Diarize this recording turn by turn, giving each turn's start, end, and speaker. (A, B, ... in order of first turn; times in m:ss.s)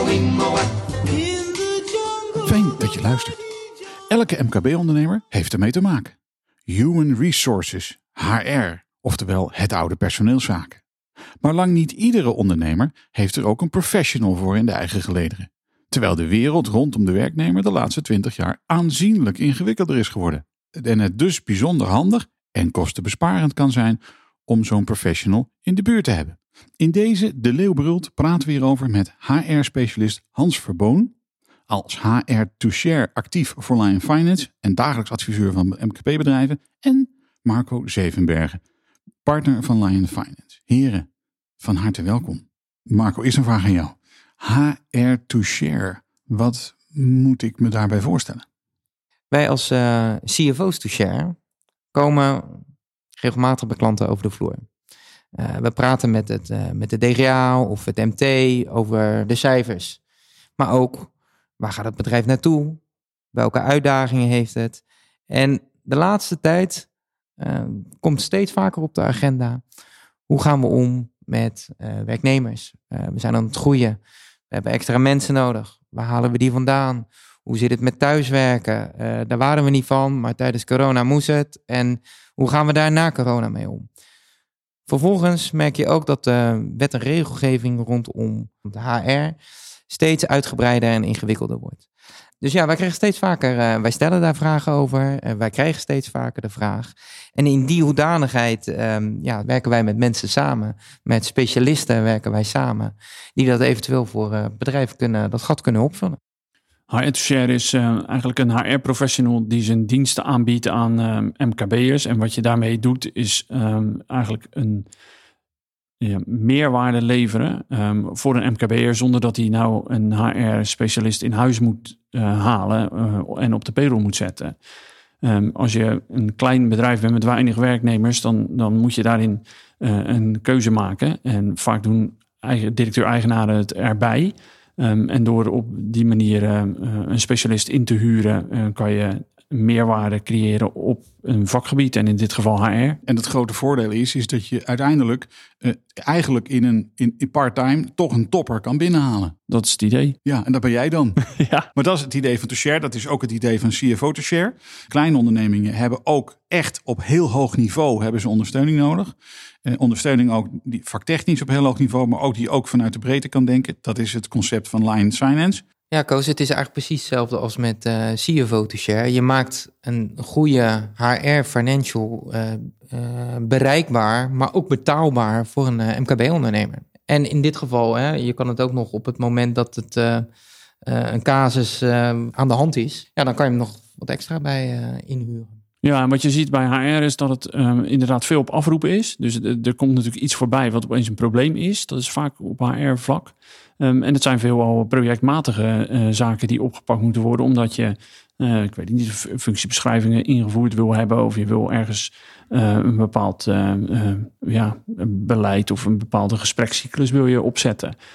0:02.4-0:03.4 A
0:04.1-0:06.2 A
0:06.7-0:10.8 A
0:11.4-0:31.1 A
0:31.7-0:38.6 A
0:39.2-0:41.1 A
0:41.6-0:48.4 A
0:49.3-0:51.4 B
0:51.9-0:52.6 B
0:53.2-0:54.6 B
0:55.3-1:00.0 B
1:00.6-1:02.8 B
1:03.3-1:09.6 B
1:10.3-1:14.0 B
1:14.5-1:23.9 B
1:24.9-1:29.4 B
1:29.9-1:31.8 B
1:32.4-1:46.2 B
1:46.9-1:54.9 C
1:56.0-2:04.6 C
2:05.2-2:23.0 C
2:23.1-2:29.4 A
2:29.5-2:30.2 C
2:30.2-2:31.2 A
2:31.2-2:31.7 C
2:31.8-2:39.1 A
2:39.6-2:45.6 A
2:45.9-3:00.3 B
3:00.8-3:05.6 B
3:05.8-3:28.0 C